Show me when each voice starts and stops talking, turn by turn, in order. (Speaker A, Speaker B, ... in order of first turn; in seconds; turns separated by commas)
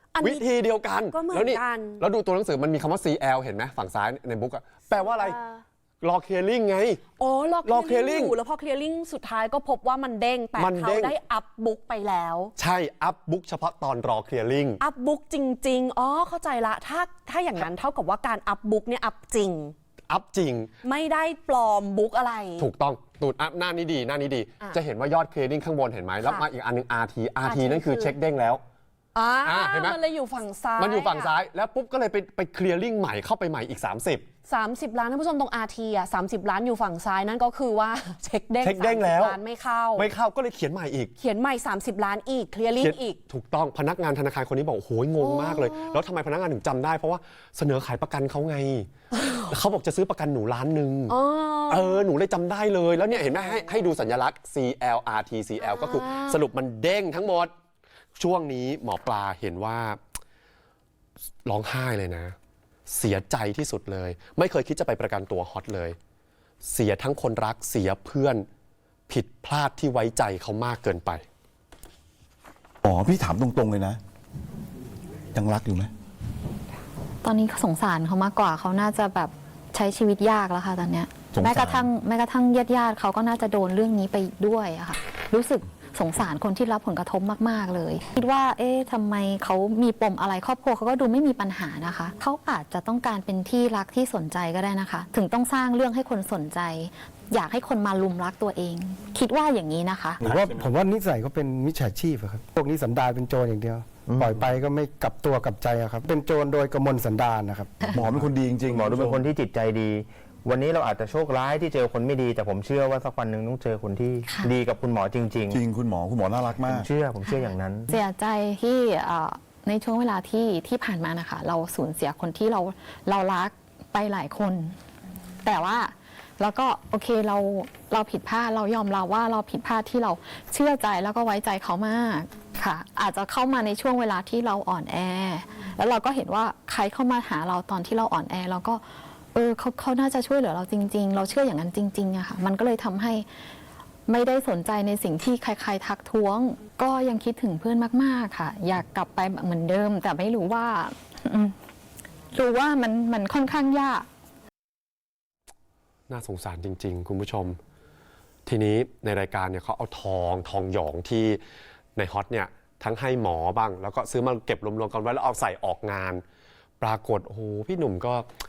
Speaker A: 0.1-0.5, Speaker B: 0.2-5.4, Speaker A: 1.1-2.0, Speaker A: 5.0-5.6, Speaker B: 6.0-7.0, Speaker A: 7.2-12.5, Speaker B: 7.7-8.4, Speaker B: 10.6-11.2, Speaker B: 12.6-14.8, Speaker A: 14.8-19.7, Speaker B: 20.1-20.7, Speaker A: 20.8-22.7, Speaker B: 22.6-28.6, Speaker A: 27.4-28.2, Speaker A: 29.1-31.3, Speaker B: 29.5-30.0, Speaker B: 30.8-34.2, Speaker A: 34.5-40.1, Speaker B: 38.6-39.4, Speaker B: 40.0-41.1, Speaker A: 41.2-43.2, Speaker B: 42.8-48.9, Speaker A: 45.2-46.0, Speaker B: 49.5-51.1, Speaker A: 51.1-52.0, Speaker B: 51.7-57.5, Speaker A: 55.6-56.4, Speaker B: 58.2-60.0, Speaker B: 61.5-62.4, Speaker B: 62.9-66.0, Speaker B: 66.6-68.5, Speaker B: 69.1-71.2, Speaker C: 72.8-74.0, Speaker C: 75.3-75.9, Speaker D: 77.2-100.2, Speaker C: 81.3-81.8, Speaker E: 100.2-108.3, Speaker C: 100.3-100.7, Speaker F: 104.1-104.5, Speaker C: 107.9-109.2, Speaker F: 108.0-115.6, Speaker D: 114.3-114.5, Speaker C: 115.5-116.9, Speaker F: 116.6-117.9, Speaker D: 117.2-124.8, Speaker D: 125.4-138.8, Speaker D: 139.3-143.3, Speaker D: 144.1-151.5, Speaker D: 152.3-154.1, Speaker B: 156.1-157.6, Speaker B: 158.5-161.4, Speaker B: 162.0-166.2, Speaker B: 166.8-168.3